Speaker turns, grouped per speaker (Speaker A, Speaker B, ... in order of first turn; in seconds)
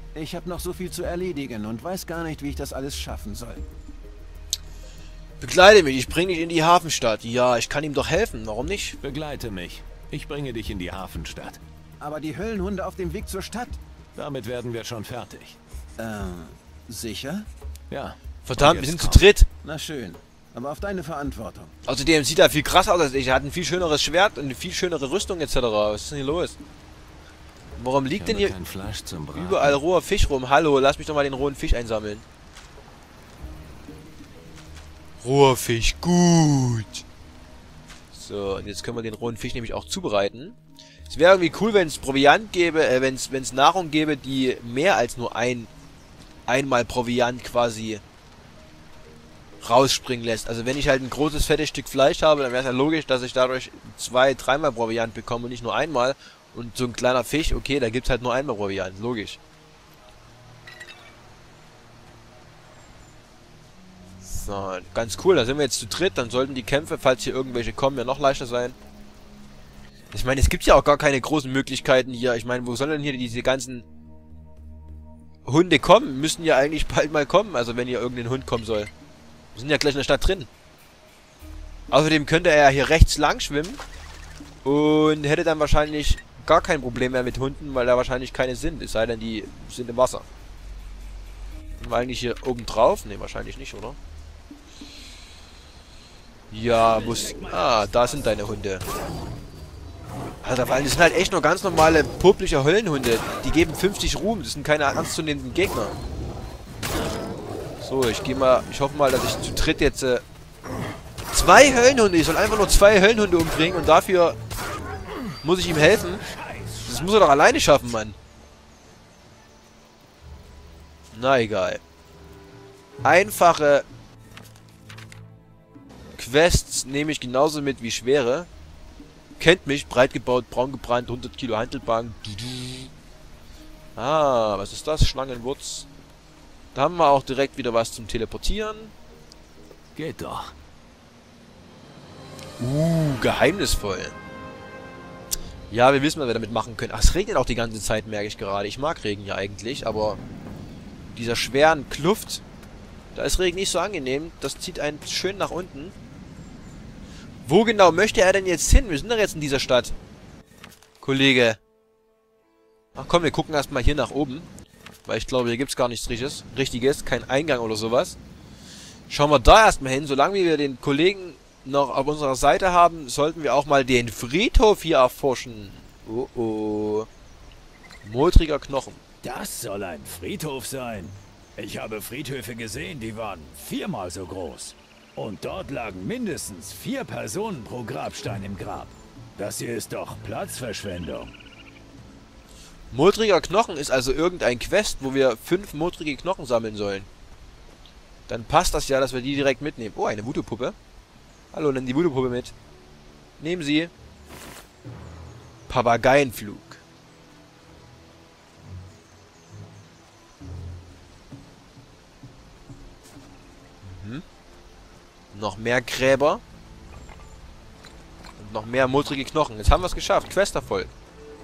Speaker A: 0.1-3.6, 12.0-13.8, 16.0-17.5, 19.6-21.8
Speaker B: 5.4-9.0, 18.4-19.5, 21.9-26.6, 27.8-28.5, 29.4-32.2, 35.2-37.0, 38.1-40.6, 41.1-45.7, 46.5-48.0, 49.6-59.4, 64.2-68.8, 70.1-73.9, 75.5-78.9, 79.5-80.5, 81.9-83.8, 84.6-90.3, 91.8-94.0, 96.5-98.8, 100.4-106.0, 107.8-110.2, 111.3-114.4, 115.4-116.2, 116.8-118.2, 121.1-121.8, 123.0-123.8, 126.2-128.5, 129.4-132.9, 134.0-135.9, 136.7-138.9, 142.6-144.2, 145.7-150.2, 151.1-152.4, 153.2-155.9, 157.4-160.0, 161.0-161.6, 162.9-164.5, 165.1-168.2, 169.1-177.1, 178.0-179.0, 192.9-197.1, 198.3-200.8, 201.5-202.6, 203.4-203.9, 205.7-206.8, 213.8-214.2, 215.3-216.4, 218.4-220.9
Speaker C: 9.0-11.6, 14.2-15.6, 17.9-19.3, 28.2-29.8, 139.9-140.5
Speaker D: 96.9-97.9, 116.3-117.1, 179.2-191.3